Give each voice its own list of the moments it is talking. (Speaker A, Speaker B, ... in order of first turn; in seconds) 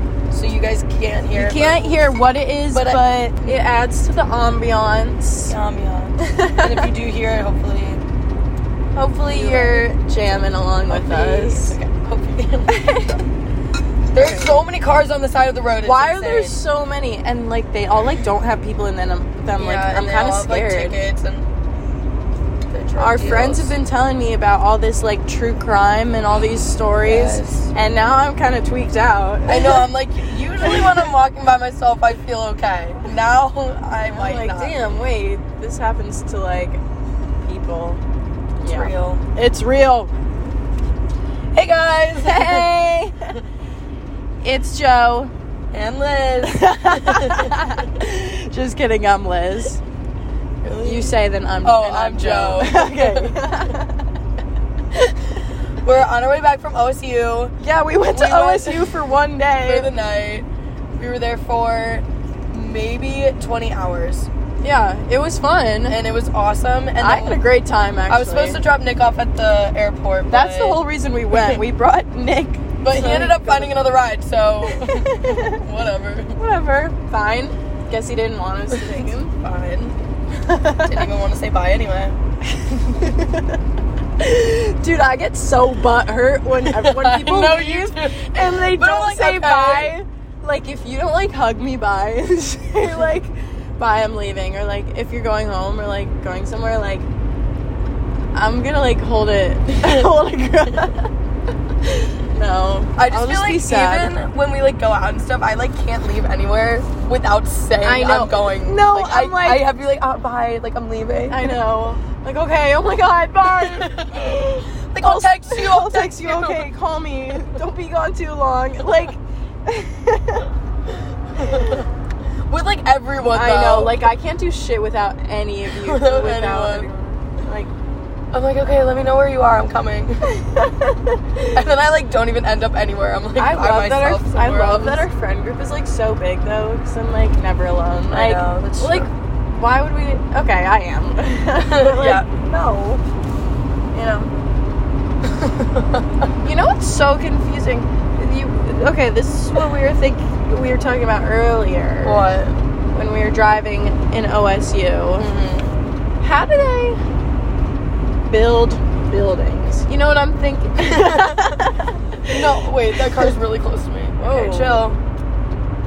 Speaker A: 0.3-2.1, 2.7-3.5, 5.4-8.0, 9.2-9.9, 10.9-12.8, 14.1-16.6, 19.6-21.5, 22.7-23.8, 27.0-27.7, 29.4-34.9, 38.6-39.2, 41.5-42.7, 45.7-47.7, 50.6-53.7, 55.8-57.5, 58.1-59.0, 59.6-64.3, 65.9-67.4, 68.1-70.8, 71.3-71.6, 72.8-76.4, 78.7-80.0, 80.8-82.2, 86.6-89.9, 99.8-100.1, 103.0-111.5, 113.4-114.4, 114.9-116.7, 121.3-121.8, 122.5-124.0, 125.7-126.9, 128.3-130.2, 131.5-135.0, 138.1-139.1, 141.6-142.3, 145.4-146.2, 152.0-152.6, 155.2-155.8, 160.8-161.5, 162.3-165.0
Speaker B: 1.3-5.5, 6.2-6.9, 8.9-11.8, 12.7-13.2, 14.2-14.6, 15.8-21.0, 23.0-29.9, 30.6-31.1, 34.1-36.8, 37.4-38.0, 38.6-40.1, 42.2-43.3, 44.4-45.3, 46.4-49.8, 50.8-54.0, 57.6-59.9, 64.6-66.0, 67.0-68.6, 70.3-73.9, 74.6-75.6, 76.4-79.3, 80.3-81.1, 82.9-83.6, 84.2-97.1, 98.3-101.1, 101.9-104.1, 107.8-109.7, 111.3-120.5, 121.4-121.8, 123.3-127.7, 130.2-131.6, 133.4-143.0, 143.9-144.3, 146.4-152.2, 152.9-155.3, 156.2-157.0, 158.3-163.3, 164.2-164.9